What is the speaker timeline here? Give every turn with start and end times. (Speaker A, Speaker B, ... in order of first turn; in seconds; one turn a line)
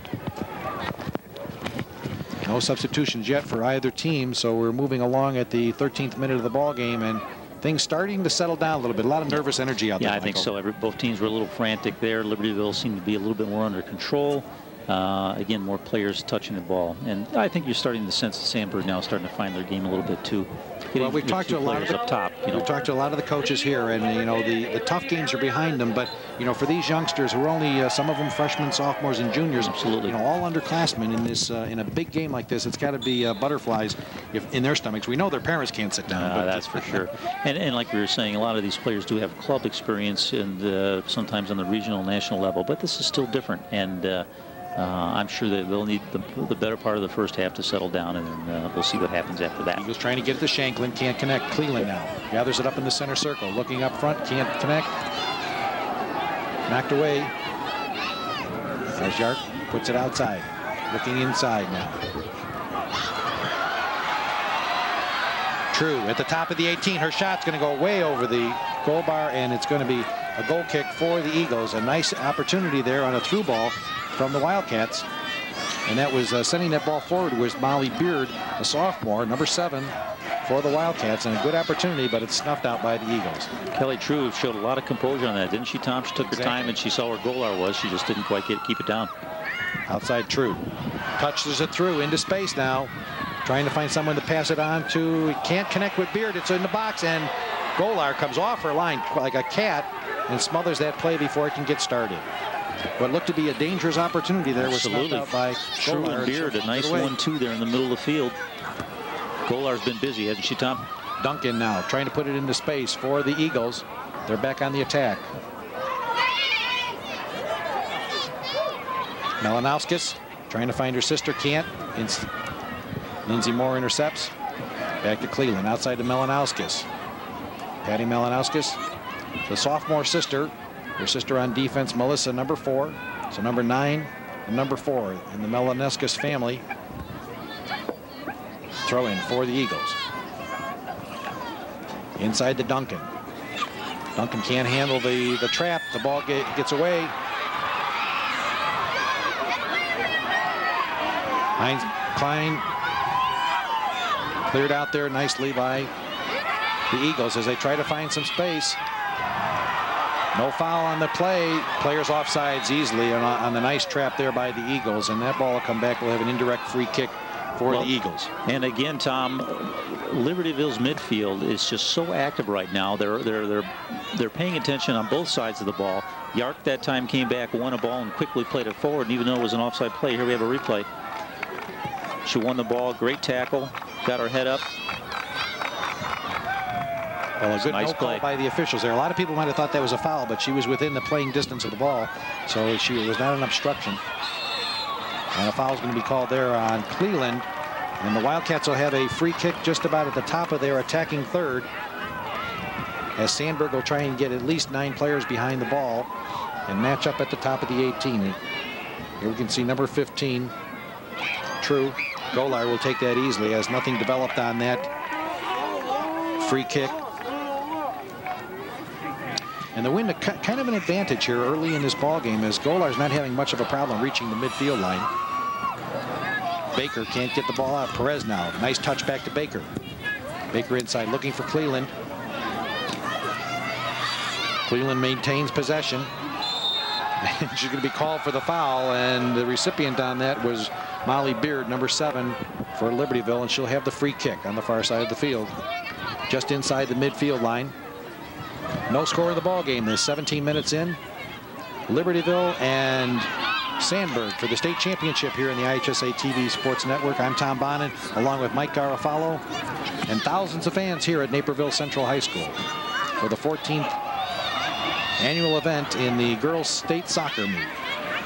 Speaker A: 2.4-10.5
Speaker B: 10.0-22.7
Speaker A: 20.9-37.1
Speaker B: 29.6-30.2
Speaker B: 36.1-49.9
Speaker A: 49.8-55.0
Speaker A: 56.7-57.3
Speaker A: 59.0-62.0
Speaker A: 65.7-75.1
Speaker A: 75.9-83.5
Speaker B: 83.7-89.1
Speaker A: 86.2-86.8
Speaker A: 89.9-90.6
Speaker A: 91.2-92.9
Speaker A: 93.5-102.3
Speaker A: 103.0-107.1
Speaker B: 104.6-108.4
Speaker B: 109.5-110.9
Speaker A: 111.2-115.3
Speaker A: 119.4-122.3
Speaker A: 123.3-124.3
Speaker A: 125.0-126.9
Speaker A: 127.8-128.8
Speaker A: 129.5-136.6
Speaker A: 138.8-140.0
Speaker A: 142.2-143.1
Speaker A: 144.2-147.2
Speaker A: 151.6-152.7
Speaker A: 154.5-155.9
Speaker A: 156.9-158.8
Speaker A: 160.3-168.3
Speaker B: 168.4-180.9
Speaker B: 182.2-184.7
Speaker A: 187.4-194.0
Speaker B: 187.6-188.2
Speaker A: 195.3-197.5
Speaker A: 198.0-201.7
Speaker A: 203.2-206.1
Speaker A: 206.7-208.4
Speaker A: 209.2-210.5
Speaker A: 211.6-214.9
Speaker A: 216.4-217.0
Speaker A: 219.7-225.1
Speaker A: 226.8-229.7
Speaker A: 230.5-231.9
Speaker A: 234.7-236.1
Speaker A: 237.2-245.6
Speaker A: 246.3-247.8
Speaker A: 248.9-251.0
Speaker A: 251.9-259.4
Speaker A: 260.1-262.6
Speaker A: 263.2-263.9
Speaker A: 265.2-267.8